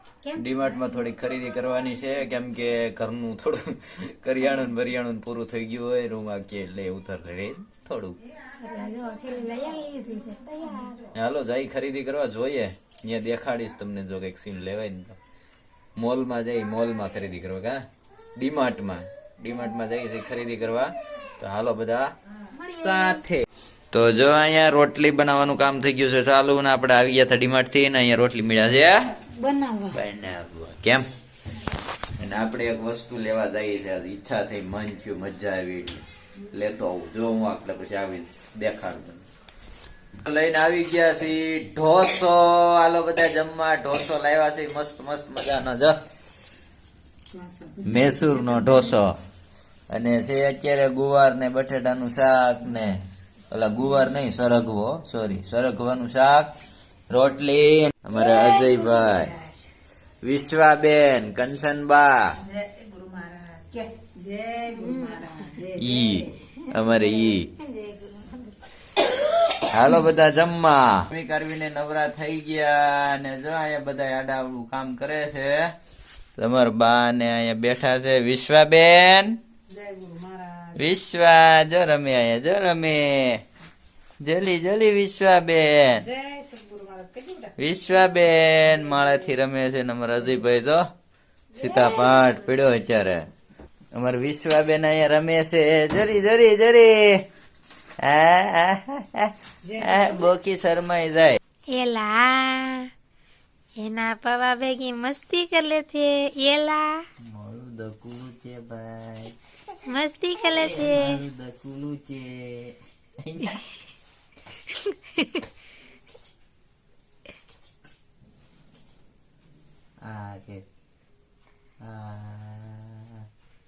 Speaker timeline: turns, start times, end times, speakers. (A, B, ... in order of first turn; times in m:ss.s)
0:00.2-0:00.8 A
0:00.4-0:08.2 B
0:08.5-0:11.1 A
0:11.1-0:15.2 B
0:16.0-0:17.8 B
0:18.4-0:22.1 B
0:22.5-0:23.2 A
0:22.7-0:29.1 B
0:29.3-0:30.0 A
0:29.9-0:31.0 B
0:32.2-0:39.3 B
0:40.2-0:45.9 B
0:47.3-0:48.9 C
0:47.8-0:49.2 B
0:49.9-0:53.0 B
0:53.5-0:56.5 B
0:57.1-0:59.3 B
0:58.1-0:59.7 C
1:00.2-1:02.4 B
1:02.4-1:06.4 C
1:04.7-1:05.6 A
1:05.8-1:07.5 B
1:06.5-1:08.6 A
1:09.7-1:15.7 B
1:16.4-1:19.4 B
1:19.7-1:20.9 C
1:20.8-1:23.4 B
1:24.2-1:26.0 B
1:26.0-1:27.6 C
1:27.6-1:30.8 B
1:28.7-1:29.1 C
1:31.6-1:33.3 B
1:31.6-1:32.2 C
1:33.9-1:37.2 B
1:38.0-1:41.4 B
1:39.6-1:40.3 C
1:41.7-1:42.9 A
1:43.8-1:47.0 A
1:47.3-1:49.3 B
1:49.8-1:51.2 A
1:50.5-1:53.6 B
1:54.7-1:55.4 A
2:00.0-2:00.6 B
2:01.8-2:03.2 B